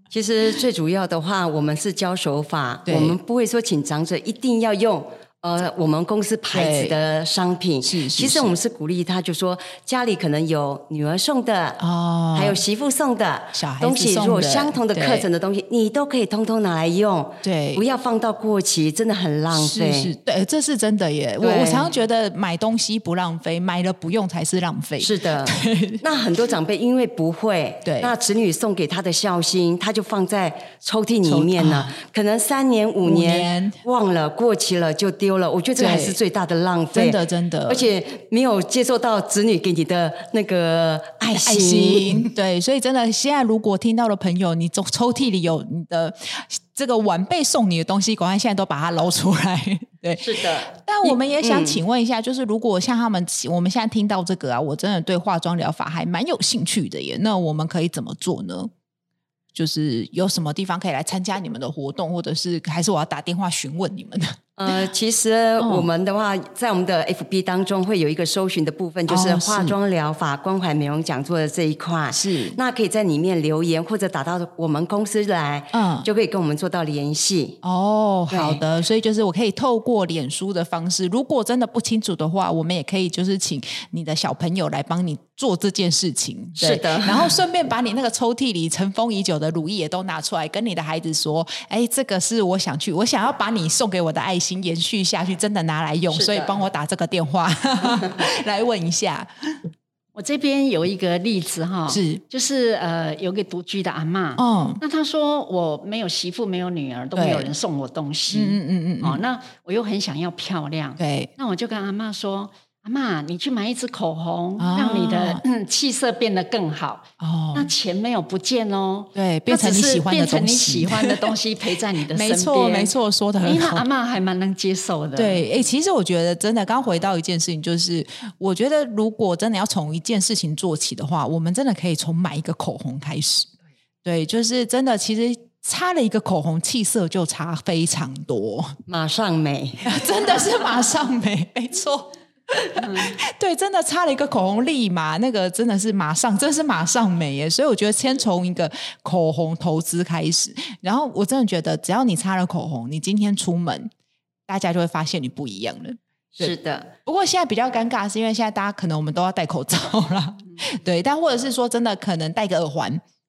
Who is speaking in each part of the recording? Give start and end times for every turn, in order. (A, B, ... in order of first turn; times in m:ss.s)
0:00.1-0:11.8 A
0:02.8-0:03.2 B
0:06.5-0:07.0 B
0:07.8-0:08.5 B
0:11.8-0:12.6 B
0:12.3-0:20.1 A
0:13.5-0:15.3 B
0:17.4-0:17.8 B
0:19.5-0:26.0 B
0:21.4-0:21.9 A
0:25.0-0:42.3 A
0:27.8-0:28.1 B
0:31.2-0:32.0 B
0:33.0-0:33.8 B
0:35.8-0:36.2 B
0:36.9-0:37.9 B
0:41.4-0:58.7 B
0:50.2-0:51.8 A
0:59.5-1:04.8 B
1:04.6-1:17.6 A
1:05.6-1:05.9 B
1:09.1-1:09.8 B
1:12.1-1:12.6 B
1:15.7-1:16.1 B
1:17.6-1:39.5 B
1:18.3-1:18.6 A
1:26.6-1:27.4 A
1:36.1-1:36.6 A
1:40.1-2:05.4 C
1:41.9-1:42.2 B
1:44.4-1:44.8 B
1:47.2-1:47.5 B
1:48.3-1:49.2 B
1:51.0-1:51.3 B
1:54.6-1:55.4 B
1:57.2-1:57.7 B
1:59.1-2:01.1 B
2:02.1-2:03.8 B
2:05.2-2:13.5 B
2:14.0-2:18.8 B
2:18.9-2:19.8 A
2:19.8-2:33.9 B
2:34.5-2:36.5 B
2:36.4-2:36.9 A
2:37.0-2:43.0 B